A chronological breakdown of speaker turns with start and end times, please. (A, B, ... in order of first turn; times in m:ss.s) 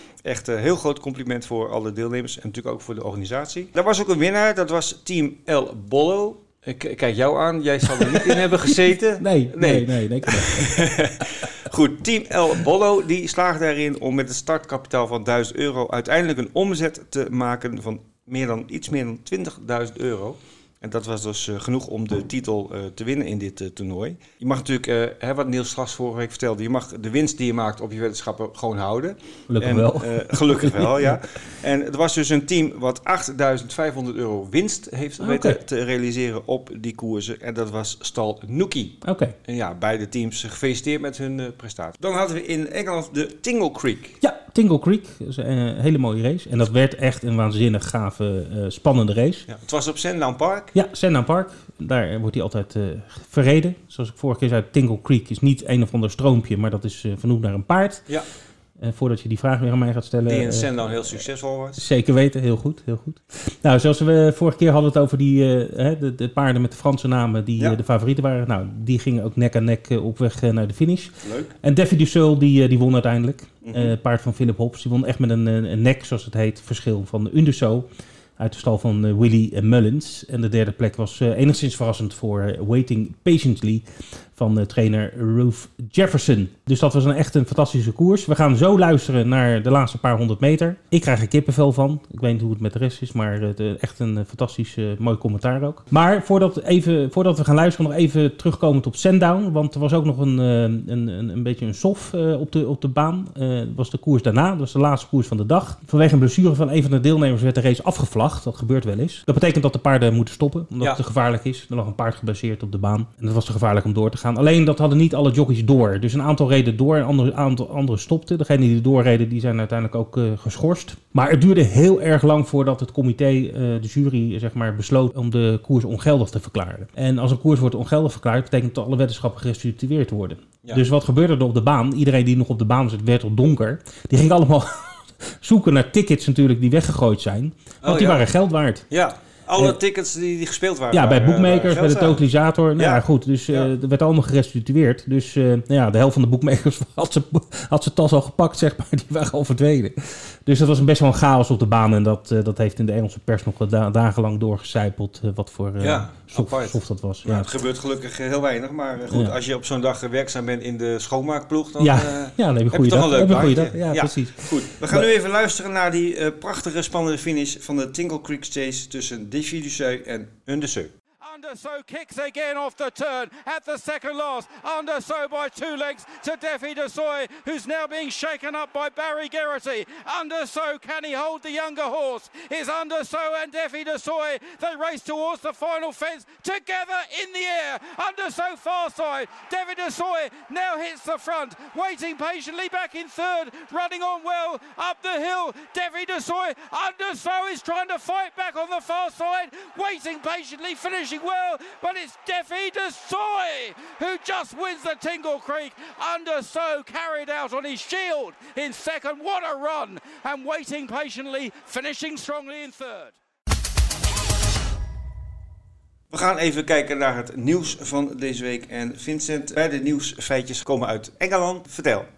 0:00.2-0:44.2 A
0:08.0-0:08.4 B
0:09.2-0:11.0 B
0:29.5-0:31.1 B
0:35.2-0:35.6 B
0:39.0-0:39.3 B
0:44.2-0:49.5 B
0:49.5-0:50.8 A
0:50.7-0:58.0 B
0:58.8-1:00.7 B
1:00.2-1:01.8 A
1:01.8-2:18.8 B
1:11.2-1:11.5 A
1:13.6-1:13.9 A
2:17.8-2:18.3 A
2:18.9-2:22.2 A
2:20.9-2:37.5 B
2:22.8-2:23.7 A
2:35.8-2:50.9 A
2:39.1-2:39.4 B
2:41.8-2:45.1 B
2:51.2-3:33.2 C
3:36.1-3:42.1 A